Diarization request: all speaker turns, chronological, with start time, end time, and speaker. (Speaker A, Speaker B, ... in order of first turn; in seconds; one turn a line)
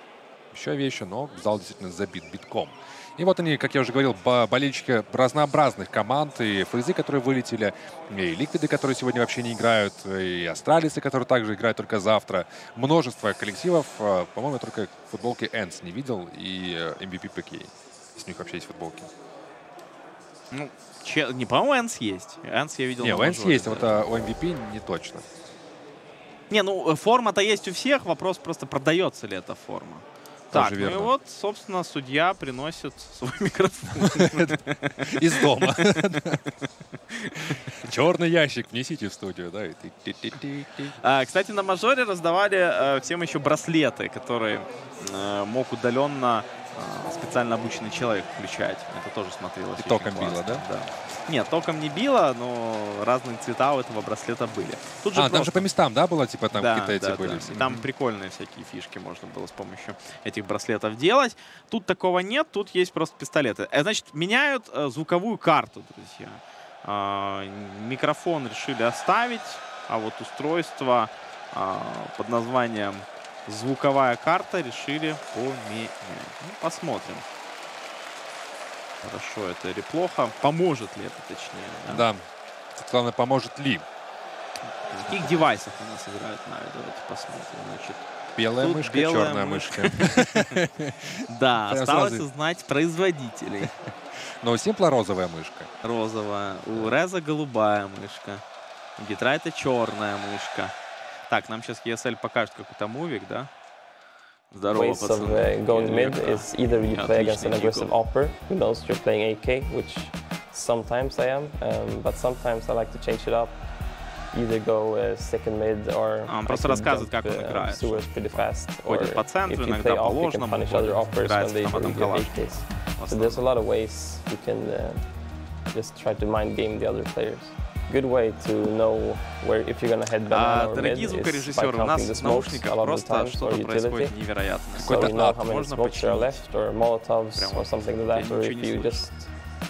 Speaker A: 0.5-19.1
Speaker B: 20.5-24.1
Speaker A: 23.0-25.2
Speaker B: 26.5-36.0
Speaker A: 30.5-31.1
Speaker A: 34.0-36.4
Speaker B: 37.1-37.4
Speaker A: 37.5-40.9
Speaker B: 41.0-55.6
Speaker A: 49.8-50.6
Speaker A: 55.1-57.9
Speaker B: 56.5-77.2
Speaker B: 79.0-82.0
Speaker A: 81.9-82.2
Speaker A: 82.8-83.8
Speaker B: 84.9-90.5
Speaker A: 88.4-92.2
Speaker B: 91.3-93.7
Speaker A: 94.4-95.7
Speaker B: 95.8-98.4
Speaker B: 99.0-100.7
Speaker B: 101.3-103.5
Speaker B: 104.5-107.9
Speaker C: 104.7-113.6
Speaker C: 114.3-125.1
Speaker B: 116.2-123.4
Speaker C: 125.7-134.2
Speaker B: 130.3-136.4
Speaker C: 134.8-139.3
Speaker A: 134.8-135.4
Speaker B: 137.3-139.1